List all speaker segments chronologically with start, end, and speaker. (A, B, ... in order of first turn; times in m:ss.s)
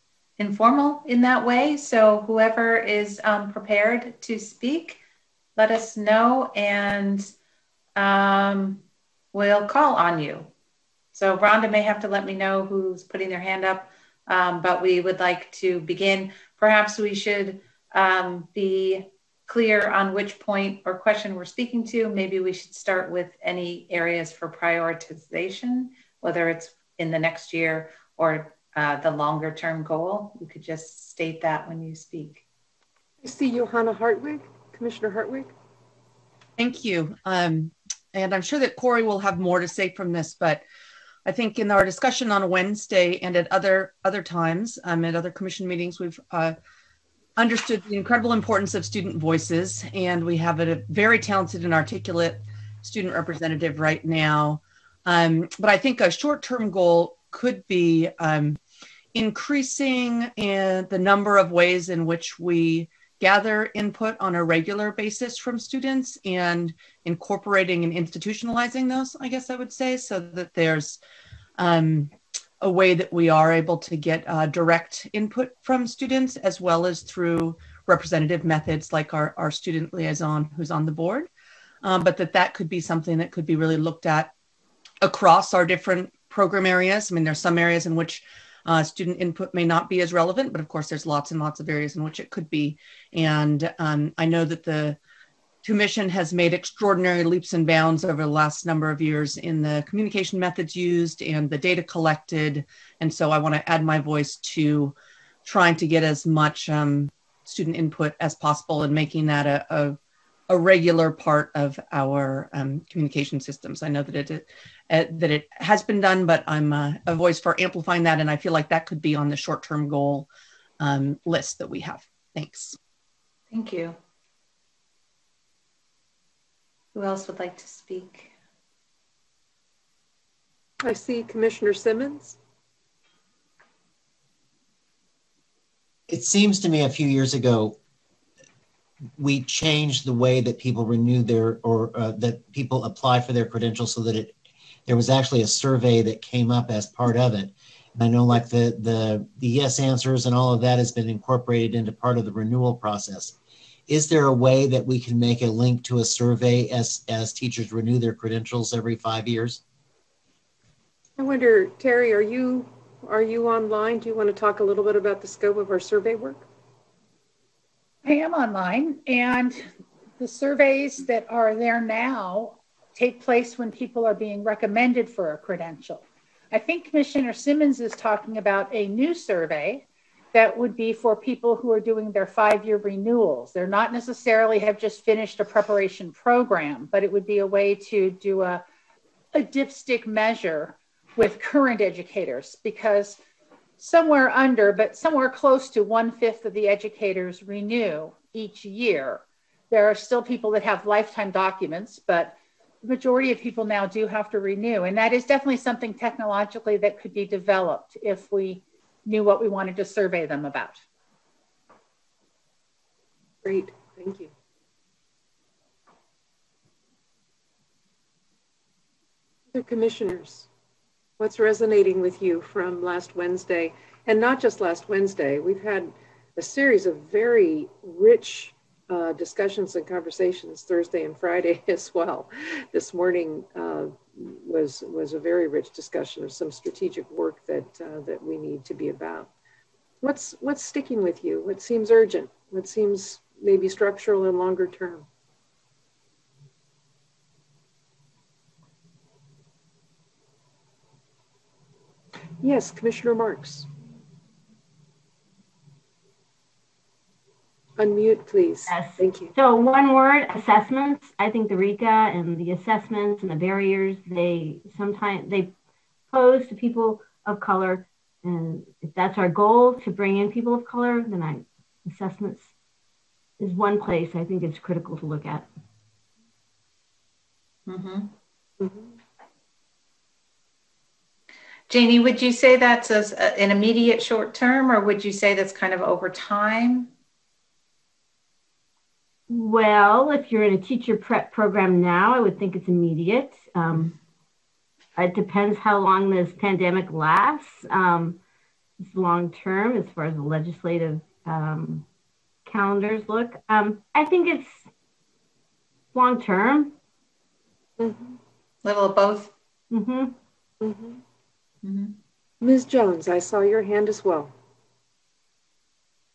0:00.4-0:05.0 A
0:05.6-0:07.3 A
0:08.0-0:10.5 A
0:11.1-0:32.4 A
0:33.2-0:35.5 B
0:36.6-0:40.6 C
0:41.2-0:46.6 C
0:47.4-0:58.6 C
0:59.1-1:11.0 C
1:11.6-1:21.3 C
1:21.8-1:24.3 C
1:25.0-1:35.0 C
1:35.6-1:44.9 C
1:45.4-2:00.3 C
2:00.8-2:02.8 C
2:03.5-2:04.0 A
2:06.9-2:08.3 A
2:10.8-2:12.4 B
2:16.1-2:17.8 D
2:19.2-2:24.3 D
2:24.9-2:33.4 D
2:33.9-2:39.6 D
2:41.2-2:46.4 B
2:48.0-3:08.6 E
3:09.3-3:13.2 E
3:13.8-3:30.8 E
3:33.4-3:34.3 B
3:39.5-3:40.5 B
3:41.2-3:59.3 B
4:00.0-4:05.1 B
4:12.4-4:13.7 B
4:17.8-4:19.3 B
4:18.7-4:25.5 F
4:26.1-4:32.5 F
4:33.4-4:35.5 F
4:37.7-4:38.1 A
4:38.6-4:39.0 B
4:41.7-4:46.9 A
4:49.3-4:54.0 F
4:55.0-4:58.2 F
4:58.8-5:01.8 F
5:02.4-5:04.7 F
5:05.9-5:06.7 F
5:07.8-5:08.2 B
5:08.6-5:09.3 A
5:09.7-5:10.1 F
5:10.6-5:11.0 B
5:11.6-5:12.0 A
5:12.4-5:14.3 B